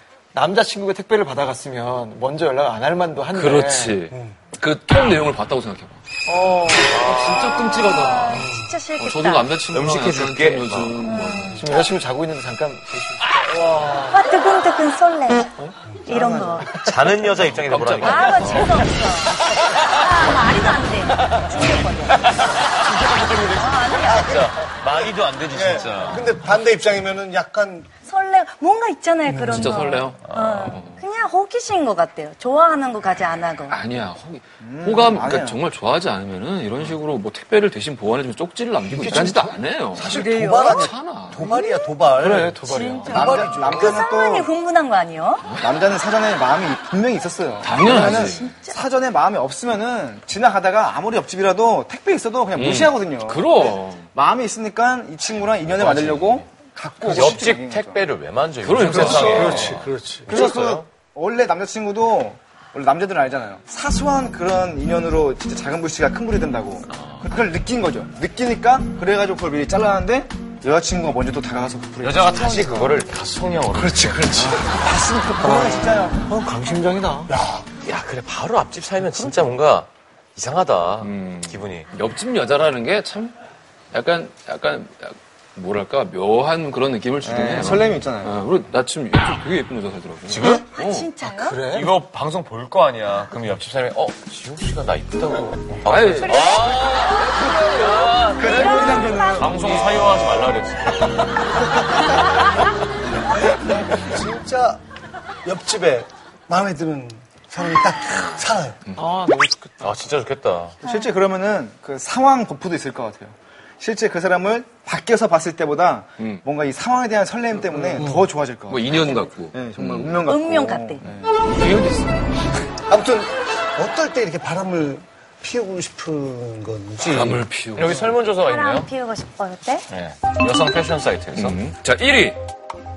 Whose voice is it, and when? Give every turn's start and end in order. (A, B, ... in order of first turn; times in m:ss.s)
0:00.3-0:04.3 A
0:03.3-0:06.0 B
0:06.3-0:07.1 A
0:06.9-0:11.6 B
0:06.9-0:07.5 C
0:07.2-0:09.6 D
0:09.7-0:11.0 C
0:11.0-0:11.6 D
0:11.5-0:14.2 A
0:14.1-0:15.5 D
0:16.0-0:16.8 D
0:16.1-0:16.5 E
0:16.8-0:18.7 C
0:17.1-0:18.9 B
0:17.9-0:22.4 D
0:23.2-0:24.5 D
0:23.3-0:24.5 E
0:23.9-0:26.3 C
0:25.5-0:27.9 E
0:25.8-0:26.2 D
0:28.0-0:33.8 D
0:29.4-0:31.0 B
0:30.2-0:30.8 C
0:33.4-0:41.5 B
0:34.6-0:35.6 F
0:38.9-0:43.9 E
0:40.2-0:40.9 D
0:41.5-0:41.9 D
0:42.1-0:43.2 A
0:42.7-0:45.4 D
0:43.0-0:44.5 F
0:45.6-0:58.0 F
0:47.6-0:48.5 B
0:47.8-0:48.8 D
0:52.5-0:54.1 B
0:55.4-0:56.5 C
0:57.1-1:00.9 C
0:58.6-0:59.8 B
0:58.8-0:59.4 F
0:58.8-1:00.4 E
1:00.3-1:13.0 F
1:06.9-1:07.4 C
1:12.0-1:14.7 C
1:13.8-1:14.6 A
1:14.6-1:16.3 F
1:15.3-1:17.3 A
1:17.3-1:17.6 E
1:17.8-1:21.9 C
1:21.0-1:23.3 B
1:23.9-1:31.1 B
1:27.2-1:28.3 F
1:30.3-1:30.6 C
1:30.5-1:31.7 D
1:31.3-1:31.9 A
1:31.7-1:41.2 C
1:35.8-1:36.8 B
1:38.4-1:39.5 F
1:38.4-1:38.8 B
1:38.4-1:39.9 D
1:43.9-1:44.8 E
1:45.4-1:48.9 E
1:49.0-1:49.9 A
1:49.8-1:50.8 C
1:50.8-2:01.3 F
1:56.2-1:56.4 B
1:57.6-1:58.0 B
1:58.0-1:58.3 E
1:58.7-2:00.0 B
2:00.2-2:01.1 D
2:01.4-2:02.2 B
2:02.9-2:07.4 E
2:07.0-2:08.9 C
2:07.0-2:08.2 B
2:08.4-2:09.8 D
2:09.9-2:11.6 C
2:11.3-2:12.4 B